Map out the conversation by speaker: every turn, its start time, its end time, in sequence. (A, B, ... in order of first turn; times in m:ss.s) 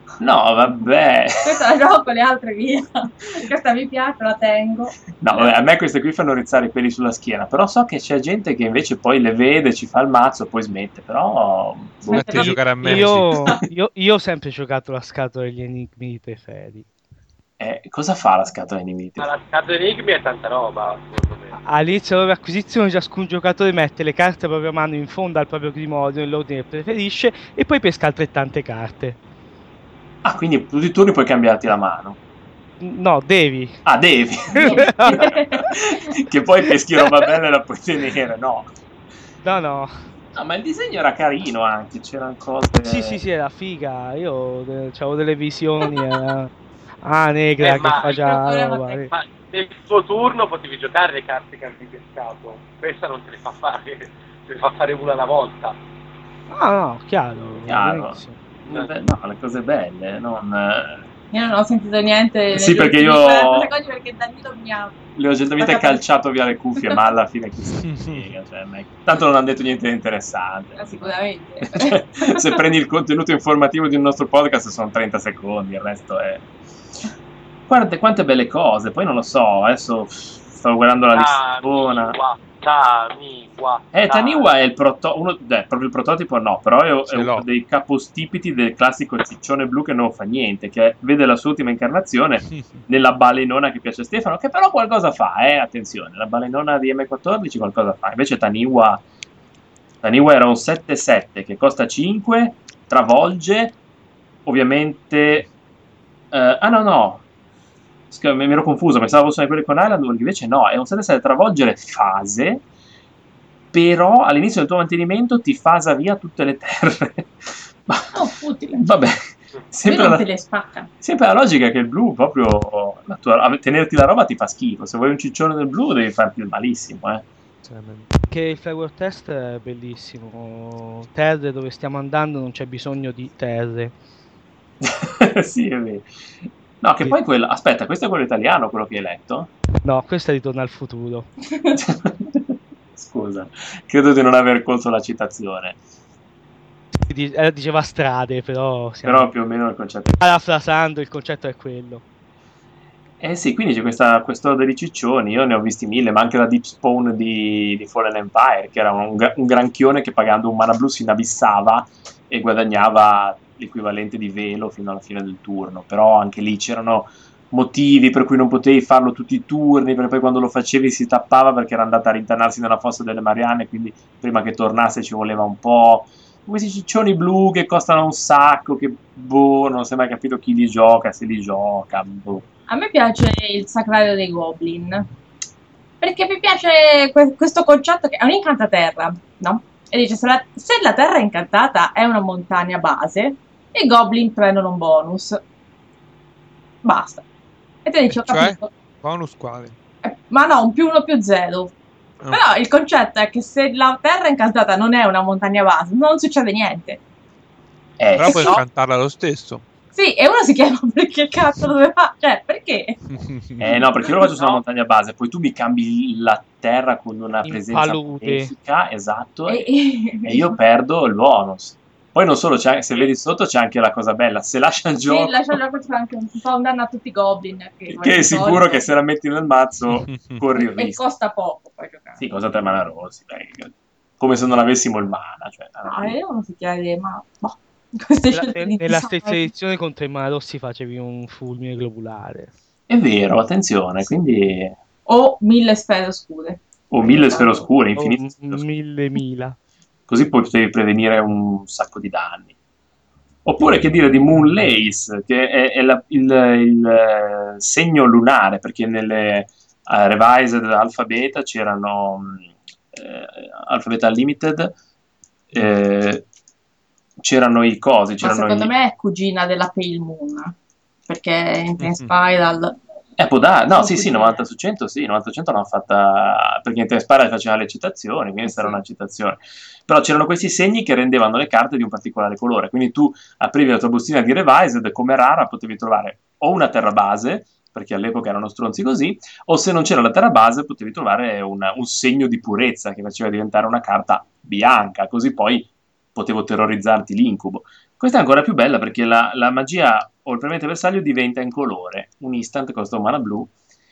0:00.2-0:01.6 A
0:01.4-0:05.5 B
0:05.2-0:12.5 A
0:12.1-0:13.0 B
0:12.1-0:13.5 C
0:12.3-0:16.9 D
0:17.6-0:19.3 A
0:19.2-0:21.6 E
0:21.6-0:29.2 D
0:30.2-0:32.2 A
0:32.8-0:33.8 D
0:33.8-0:38.7 A
0:34.5-0:35.3 D
0:34.5-0:35.7 B
0:39.4-0:39.9 D
0:40.4-0:43.2 A
0:42.8-0:46.5 D
0:47.0-0:49.1 D
0:47.6-0:48.2 E
0:48.0-0:49.1 B
0:49.1-0:55.8 E
0:56.5-0:58.4 D
0:57.7-1:01.1 A
1:01.3-1:05.0 B
1:02.5-1:03.7 A
1:05.2-1:16.5 A
1:05.6-1:06.0 B
1:07.8-1:08.3 C
1:10.8-1:12.4 B
1:17.7-1:22.2 A
1:21.1-1:24.5 E
1:23.9-1:39.0 A
1:27.1-1:27.4 C
1:32.5-1:32.8 C
1:40.0-1:43.8 A
1:44.5-1:45.5 A
1:46.3-1:47.2 A
1:48.1-1:52.6 A
1:53.7-2:00.3 A
1:58.1-1:58.9 B
1:59.9-2:00.9 B
2:01.0-2:07.2 A
2:07.6-2:08.1 C
2:08.3-2:14.0 D
2:14.8-2:16.1 A
2:16.8-2:19.5 A
2:19.8-2:21.3 D
2:21.8-2:25.8 A
2:27.0-2:29.3 D
2:29.0-2:30.3 A
2:30.2-2:32.0 D
2:33.2-3:02.4 A
3:02.7-3:05.1 B
3:06.0-3:15.4 B
3:16.8-3:17.2 B
3:17.8-3:18.7 B
3:18.1-3:19.8 C
3:20.0-3:21.7 B
3:22.3-3:27.0 B
3:28.0-3:28.6 A
3:28.1-3:29.6 C
3:28.3-3:28.6 E
3:29.9-3:33.0 B
3:33.1-3:33.7 C
3:33.6-3:39.7 A
3:34.2-3:34.6 E
3:37.4-3:38.5 D
3:39.5-3:40.6 B
3:40.2-3:45.6 A
3:45.1-3:48.9 B
3:47.9-3:51.0 A
3:50.0-3:50.4 C
3:50.6-3:52.4 B
3:52.2-3:56.2 A
3:55.9-3:59.5 B
3:58.3-4:02.5 D
4:02.9-4:04.8 A
4:05.1-4:07.6 B
4:06.9-4:08.6 A
4:08.0-4:09.6 D
4:10.1-4:12.5 A
4:13.4-4:24.7 A
4:25.5-4:26.3 A
4:27.2-4:28.7 A
4:28.2-4:30.6 B
4:31.1-4:32.8 B
4:31.8-4:32.1 C
4:33.2-5:03.5 A
4:33.7-4:34.4 B
4:38.4-4:38.8 B